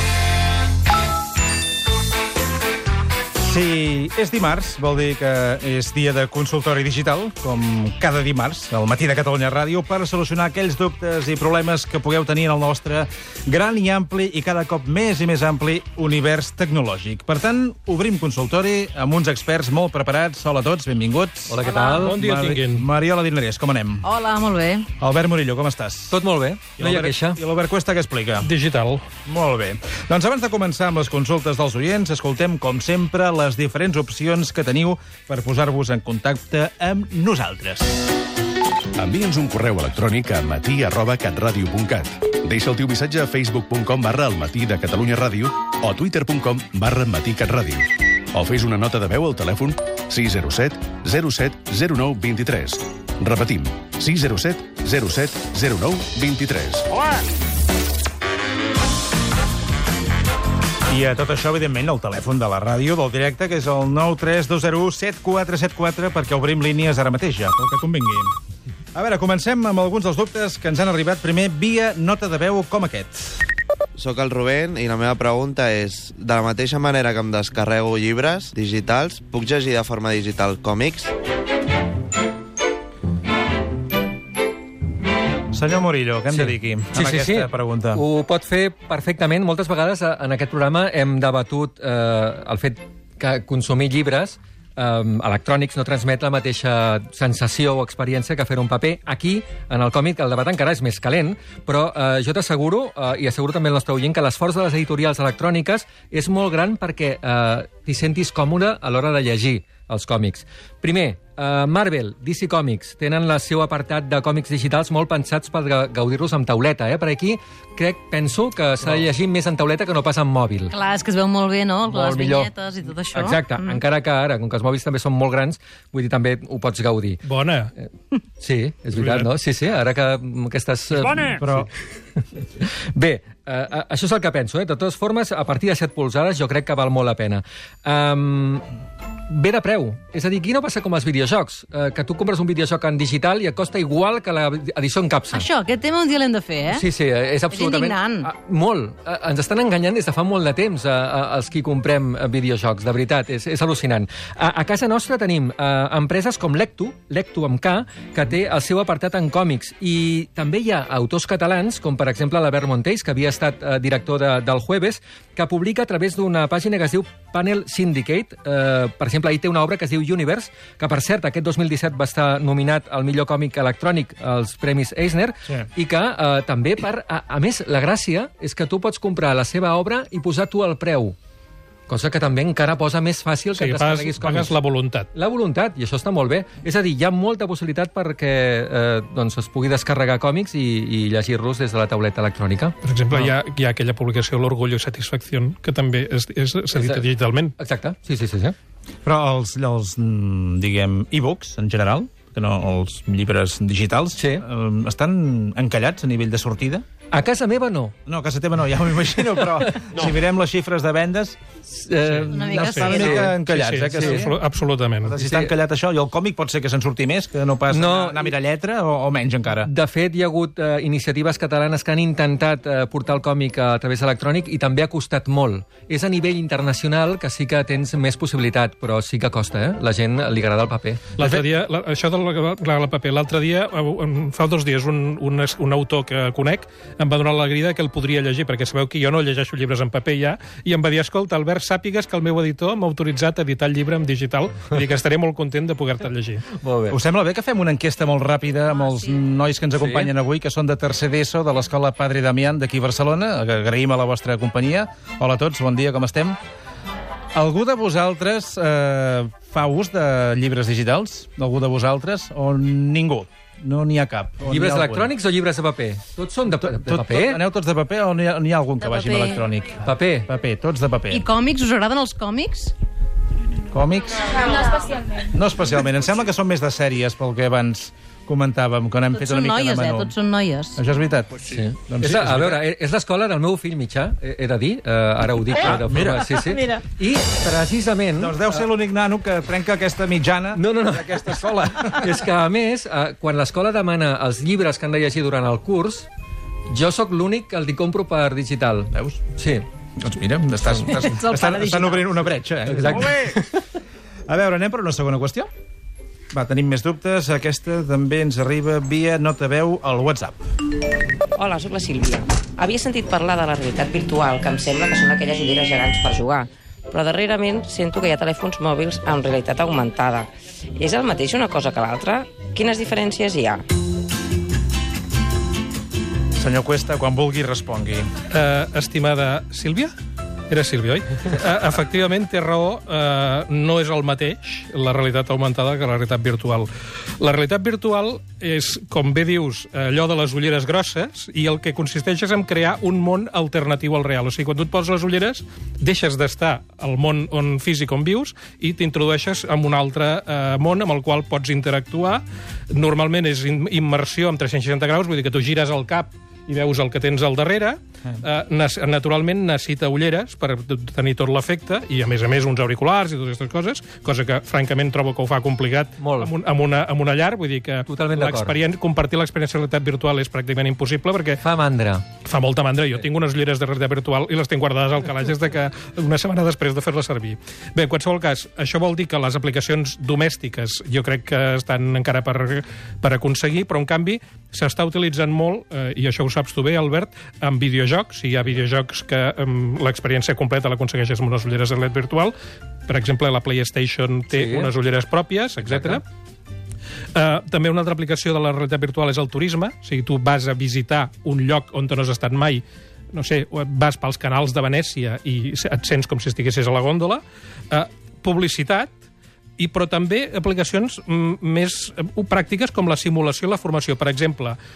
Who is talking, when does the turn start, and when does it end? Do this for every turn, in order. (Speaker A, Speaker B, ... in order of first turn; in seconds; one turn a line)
Speaker A: 3.4-24.0
Speaker B: 21.5-22.2
Speaker C: 21.6-22.0
Speaker D: 22.0-22.9
Speaker C: 24.0-24.9
Speaker A: 25.0-26.2
Speaker B: 26.1-27.4
Speaker A: 26.8-28.5
Speaker D: 28.4-29.0
Speaker A: 29.2-38.1
Speaker E: 39.0-56.9
Speaker A: 60.9-68.3
Speaker A: 68.9-73.4
Speaker F: 74.0-81.1
Speaker A: 85.5-88.0
Speaker B: 86.3-120.7
Speaker C: 120.7-123.8
Speaker B: 121.9-122.5
Speaker B: 123.1-127.2
Speaker D: 127.2-127.7
Speaker B: 128.4-131.4
Speaker D: 129.0-129.2
Speaker A: 131.3-131.7
Speaker B: 132.9-138.7
Speaker B: 139.3-145.5
Speaker C: 145.3-146.8
Speaker B: 146.7-181.2
Speaker C: 147.5-148.3
Speaker B: 181.9-184.6
Speaker D: 183.6-185.1
Speaker B: 185.1-192.7
Speaker D: 192.8-197.5
Speaker B: 196.7-197.1
Speaker B: 197.6-198.6
Speaker A: 199.0-206.8
Speaker B: 204.2-204.4
Speaker B: 207.1-207.9
Speaker A: 208.1-211.4
Speaker B: 211.7-212.3
Speaker A: 212.0-214.3
Speaker C: 212.3-213.3
Speaker D: 212.5-215.2
Speaker B: 212.9-213.3
Speaker B: 213.9-214.3
Speaker A: 215.0-219.7
Speaker B: 215.2-215.5
Speaker B: 217.7-218.3
Speaker B: 219.6-231.1
Speaker D: 231.2-246.4
Speaker B: 246.5-247.0
Speaker A: 246.9-256.4
Speaker C: 248.8-249.1
Speaker B: 249.8-250.1
Speaker A: 257.3-265.1
Speaker B: 264.4-267.4
Speaker A: 266.5-271.2
Speaker C: 268.8-269.3
Speaker B: 269.8-270.3
Speaker C: 271.1-272.7
Speaker A: 273.7-274.2
Speaker A: 275.3-280.1
Speaker C: 279.1-280.8
Speaker A: 280.8-282.6
Speaker B: 281.5-288.4
Speaker A: 285.6-286.4
Speaker C: 286.4-286.8
Speaker A: 288.2-292.2
Speaker B: 290.6-296.1
Speaker B: 296.7-299.6
Speaker A: 298.9-299.2
Speaker A: 300.0-303.4
Speaker C: 300.9-302.1
Speaker B: 302.7-303.6
Speaker A: 304.3-305.5
Speaker A: 306.3-310.4
Speaker G: 311.3-323.6
Speaker A: 326.4-328.1
Speaker D: 328.3-329.9
Speaker D: 330.5-336.7
Speaker D: 337.2-371.4
Speaker B: 366.0-366.3
Speaker B: 367.9-368.5
Speaker B: 371.4-372.0
Speaker D: 372.2-392.3
Speaker D: 392.9-396.0
Speaker B: 394.3-394.7
Speaker B: 395.6-396.0
Speaker D: 397.1-408.9
Speaker D: 409.6-414.6